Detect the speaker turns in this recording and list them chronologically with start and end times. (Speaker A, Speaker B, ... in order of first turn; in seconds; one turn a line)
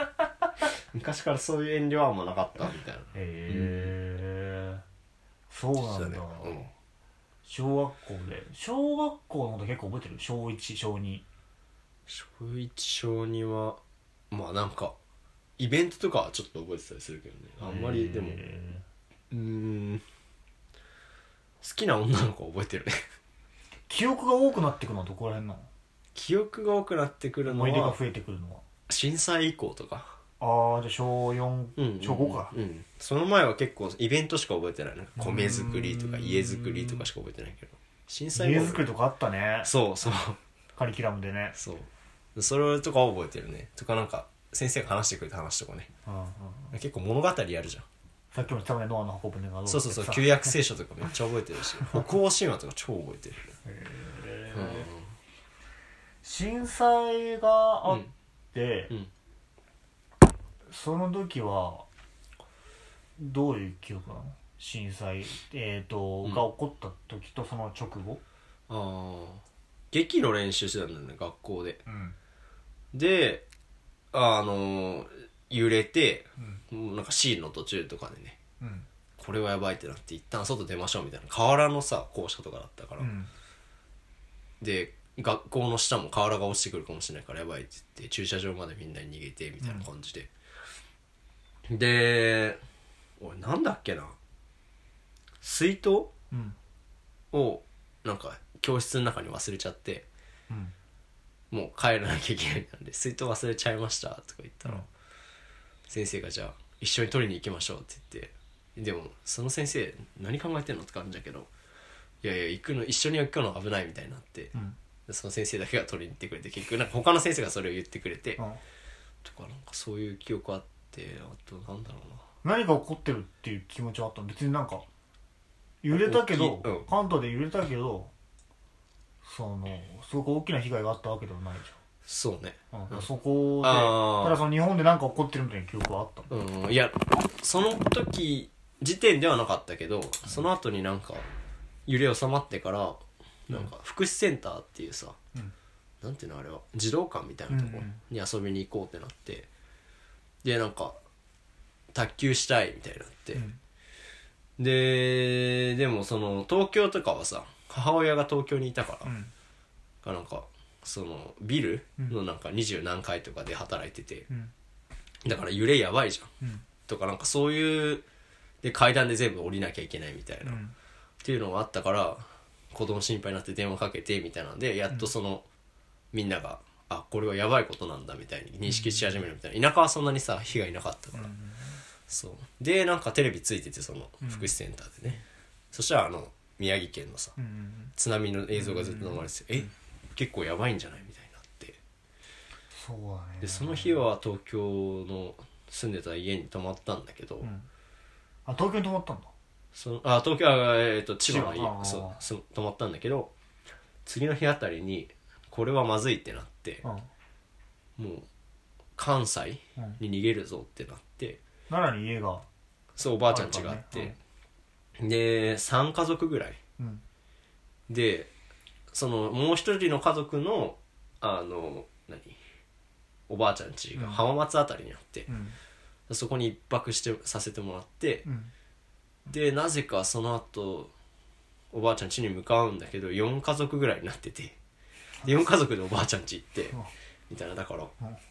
Speaker A: 0.9-4.0
Speaker B: 3.1-4.8
Speaker B: 5.5-6.7
Speaker A: 5.8-6.7
Speaker B: 7.5-11.3
Speaker A: 12.1-13.8
Speaker A: 14.3-15.0
Speaker A: 15.6-18.4
Speaker B: 17.6-18.8
Speaker A: 19.3-20.1
Speaker A: 21.6-23.1
Speaker B: 23.9-25.7
Speaker A: 26.1-28.0
Speaker B: 27.5-28.6
Speaker A: 28.9-30.2
Speaker B: 30.4-32.5
Speaker A: 31.8-38.9
Speaker B: 35.2-37.1
Speaker B: 38.3-39.7
Speaker A: 39.6-40.4
Speaker B: 40.8-41.6
Speaker A: 41.5-45.9
Speaker B: 46.1-46.8
Speaker A: 46.7-47.9
Speaker B: 48.3-50.5
Speaker A: 49.7-53.5
Speaker B: 53.6-54.9
Speaker A: 54.5-55.0
Speaker B: 56.2-58.9
Speaker B: 60.7-61.9
Speaker B: 63.2-68.2
Speaker A: 68.7-71.8
Speaker B: 71.9-72.2
Speaker A: 72.9-73.5
Speaker A: 74.1-78.4
Speaker B: 78.6-78.9
Speaker A: 79.2-83.1
Speaker B: 83.0-83.3
Speaker A: 84.6-90.3
Speaker B: 89.6-89.9
Speaker A: 91.7-92.6
Speaker A: 93.2-94.2
Speaker A: 95.4-96.1
Speaker B: 96.3-96.6
Speaker A: 97.3-100.1
Speaker A: 101.5-104.9
Speaker A: 105.9-111.5
Speaker A: 112.2-114.5
Speaker A: 115.1-118.4
Speaker A: 119.2-122.2
Speaker B: 122.4-124.8
Speaker B: 125.8-128.1
Speaker A: 125.9-126.9
Speaker B: 129.2-131.8
Speaker A: 132.1-133.1
Speaker B: 132.7-136.3
Speaker A: 133.6-134.4
Speaker A: 136.3-141.2
Speaker A: 141.9-145.2
Speaker A: 146.0-149.5
Speaker B: 147.5-148.0
Speaker A: 150.4-151.0
Speaker A: 151.9-153.4
Speaker A: 154.6-159.1
Speaker B: 159.1-159.3
Speaker A: 160.0-164.3
Speaker A: 165.2-166.3
Speaker A: 166.9-168.1
Speaker A: 168.6-170.6
Speaker B: 170.4-170.7
Speaker A: 171.2-175.5
Speaker A: 176.1-181.3
Speaker B: 178.7-179.1
Speaker B: 181.1-181.8
Speaker A: 182.1-187.3
Speaker B: 184.2-184.5
Speaker B: 187.4-187.9
Speaker A: 188.0-191.8
Speaker B: 188.6-189.3
Speaker B: 192.7-194.0
Speaker A: 193.4-197.5
Speaker B: 197.4-197.7
Speaker B: 198.5-199.3
Speaker A: 199.7-203.3
Speaker B: 201.3-202.2
Speaker A: 204.1-206.8
Speaker B: 206.8-207.1
Speaker A: 208.0-208.3
Speaker A: 209.0-211.4
Speaker B: 211.7-212.5
Speaker A: 213.0-214.2
Speaker B: 213.3-214.2
Speaker A: 215.0-216.6
Speaker B: 216.8-217.0
Speaker A: 217.9-218.3
Speaker A: 218.9-222.4
Speaker A: 223.3-225.3
Speaker B: 224.0-224.2
Speaker B: 225.3-225.6
Speaker A: 226.1-228.3
Speaker B: 228.2-228.5
Speaker A: 229.3-230.9
Speaker A: 231.7-234.6
Speaker A: 235.2-236.8
Speaker A: 237.3-237.9